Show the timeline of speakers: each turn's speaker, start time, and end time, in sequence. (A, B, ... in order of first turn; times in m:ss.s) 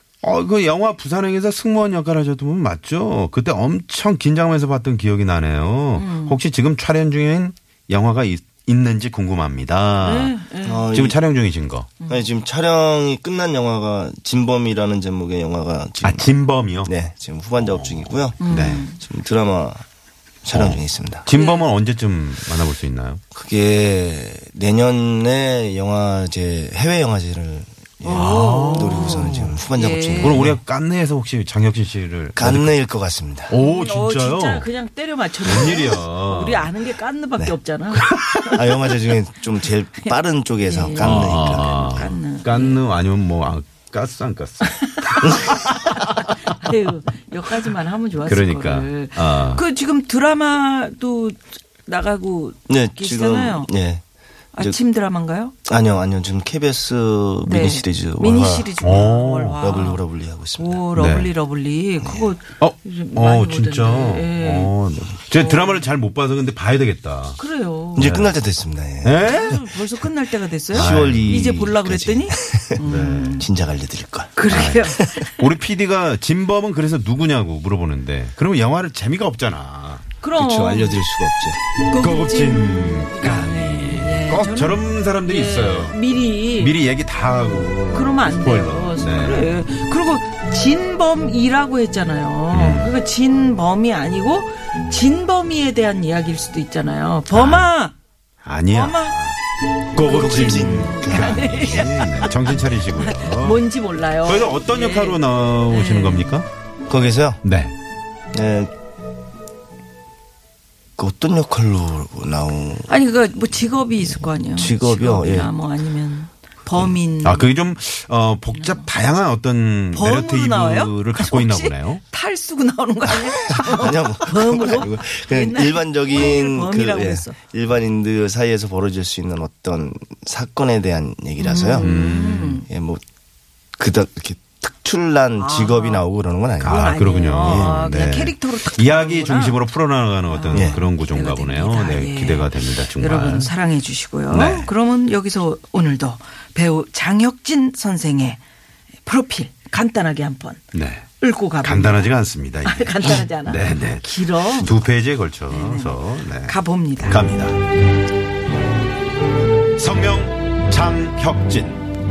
0:00.2-0:10.4 A
0:06.0-0:06.4 B
0:10.0-0:10.9 B
0:10.6-0:11.2 C
0:10.9-0:11.9 A
0:12.1-0:16.3 C
0:16.0-0:16.9 A
0:16.8-0:19.8 C
0:17.6-0:18.8 A
0:18.4-0:19.0 B
0:20.4-0:21.3 C
0:20.5-0:23.2 A
0:21.3-0:21.6 B
0:23.3-0:30.6 C
0:28.0-0:30.4 B
0:28.1-0:29.6 A
0:30.2-0:32.8 A
0:32.4-0:33.5 C
0:33.5-0:34.7 A
0:33.6-0:38.3 B
0:35.4-0:36.7 A
0:37.9-0:38.7 A
0:38.5-0:42.0 C
0:40.7-0:42.8 B
0:41.0-0:46.3 A
0:44.6-0:53.7 B
0:48.3-0:49.6 A
0:52.7-0:54.0 C
0:54.5-0:55.5 B
0:55.6-0:58.7 C
0:57.4-1:00.0 B
0:58.8-0:59.6 A
0:59.6-1:00.8 C
1:00.6-1:04.7 B
1:01.0-1:01.3 A
1:02.0-1:02.3 C
1:02.6-1:07.4 A
1:05.3-1:05.8 B
1:07.4-1:08.1 B
1:08.0-1:08.3 A
1:08.0-1:09.3 C
1:09.0-1:09.6 A
1:09.2-1:13.5 B
1:10.7-1:15.2 C
1:10.7-1:11.4 A
1:12.8-1:13.5 A
1:14.4-1:15.4 B
1:14.5-1:20.0 A
1:20.2-1:21.0 B
1:20.4-1:21.6 C
1:21.9-1:26.8 B
1:22.0-1:26.0 A
1:26.5-1:29.6 A
1:27.4-1:38.0 B
1:32.5-1:32.9 A
1:37.3-1:37.7 A
1:38.4-1:39.4 A
1:38.7-1:39.2 B
1:39.9-1:43.6 A
1:40.0-1:46.4 B
1:40.0-1:41.6 C
1:44.2-1:46.5 A
1:46.9-1:47.4 C
1:47.4-1:47.7 A
1:48.3-1:48.7 C
1:51.0-1:52.9 C
1:52.9-1:57.5 B
1:54.4-1:55.5 C
1:57.2-2:02.0 A
1:58.5-1:58.9 B
1:59.9-2:07.4 B
2:03.5-2:12.0 C
2:11.4-2:12.7 B
2:11.8-2:12.6 A
2:12.6-2:13.0 C
2:13.8-2:17.8 C
2:15.4-2:16.0 B
2:16.6-2:23.5 A
2:16.6-2:19.6 B
2:20.3-2:28.4 B
2:20.5-2:20.8 C
2:24.3-2:24.7 A
2:29.0-2:30.6 B
2:30.7-2:31.1 A
2:31.2-2:32.1 B
2:31.6-2:37.6 A
2:32.6-2:34.7 B
2:35.5-2:37.2 B
2:39.8-2:41.8 A